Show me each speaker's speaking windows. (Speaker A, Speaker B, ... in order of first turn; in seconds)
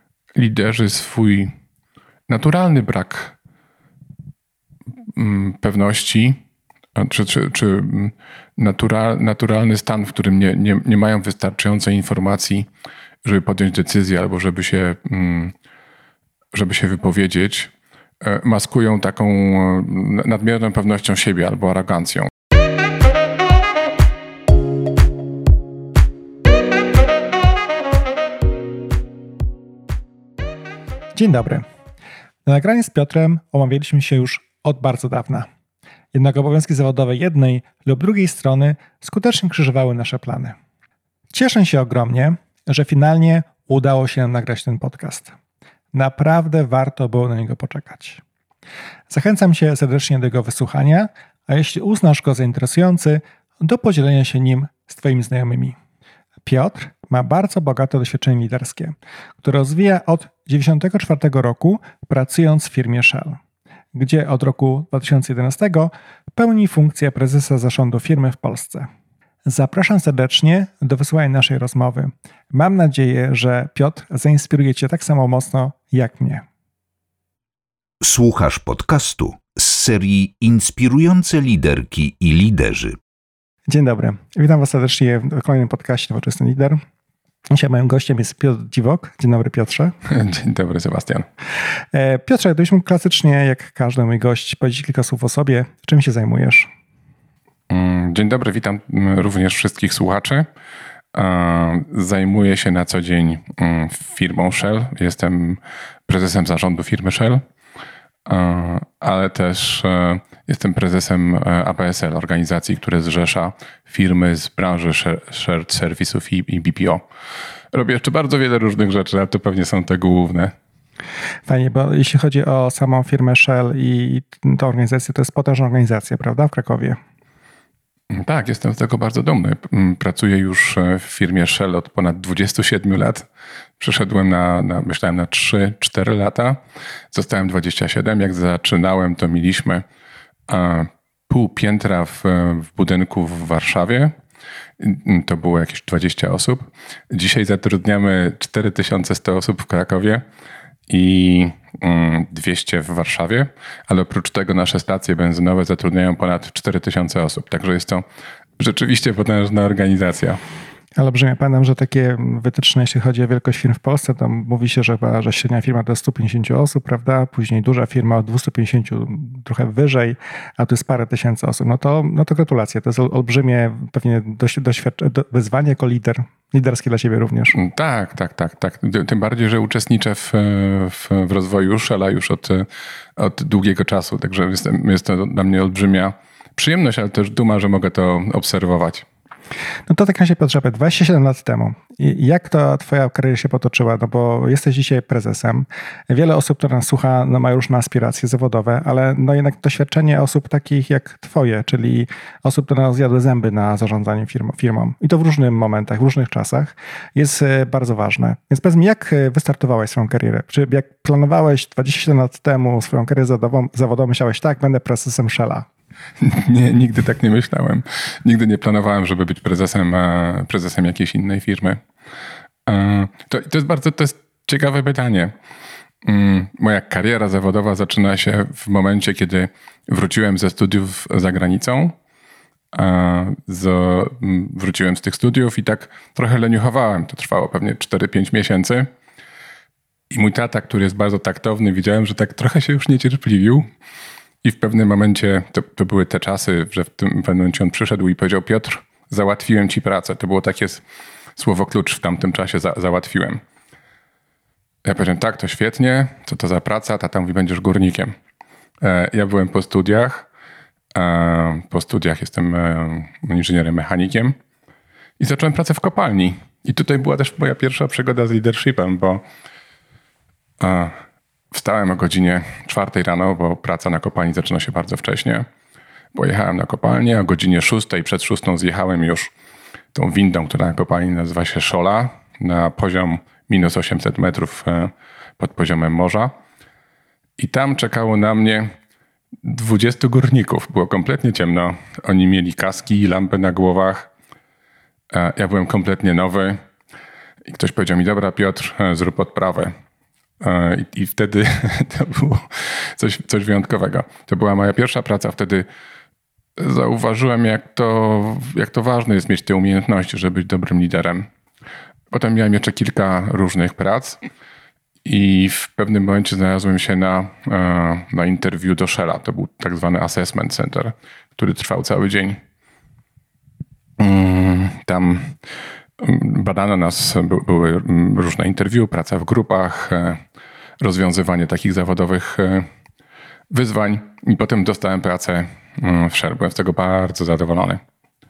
Speaker A: 0.3-1.5, 2.3-3.3, 5.2-6.4, 7.0-12.7, 13.2-15.5, 16.5-22.3, 90.0-91.2, 97.7-100.5, 101.1-107.4, 108.2-117.0, 117.7-120.5, 128.1-133.2, 133.8-136.6, 137.1-139.8, 140.5-144.1, 144.8-150.2, 150.9-158.0, 158.6-160.4, 177.5-189.1, 216.2-221.8, 222.7-225.3, 226.0-231.9, 232.7-238.9, 240.1-243.7, 244.4-250.8, 251.3-253.4, 254.8-258.1, 258.8-260.3, 260.9-264.4, 265.2-269.2, 270.6-271.0, 271.5-275.5, 276.1-279.3, 279.9-286.3, 287.4-288.7, 289.4-294.1, 295.1-296.6, 297.5-299.7, 300.4-305.7, 306.6-311.3, 312.1-314.2, 315.0-322.4, 324.0-325.4, 326.0-330.2, 330.8-332.7, 333.5-337.8
Speaker B: 31.1-31.6, 32.4-35.5, 36.1-40.5, 41.3-45.3, 45.9-48.2, 49.1-55.8, 56.5-63.4, 63.9-68.9, 69.4-76.4, 83.7-86.8, 87.5-89.9, 91.9-96.7, 121.5-127.0, 160.9-177.6, 189.9-215.7
Speaker C: 78.0-83.0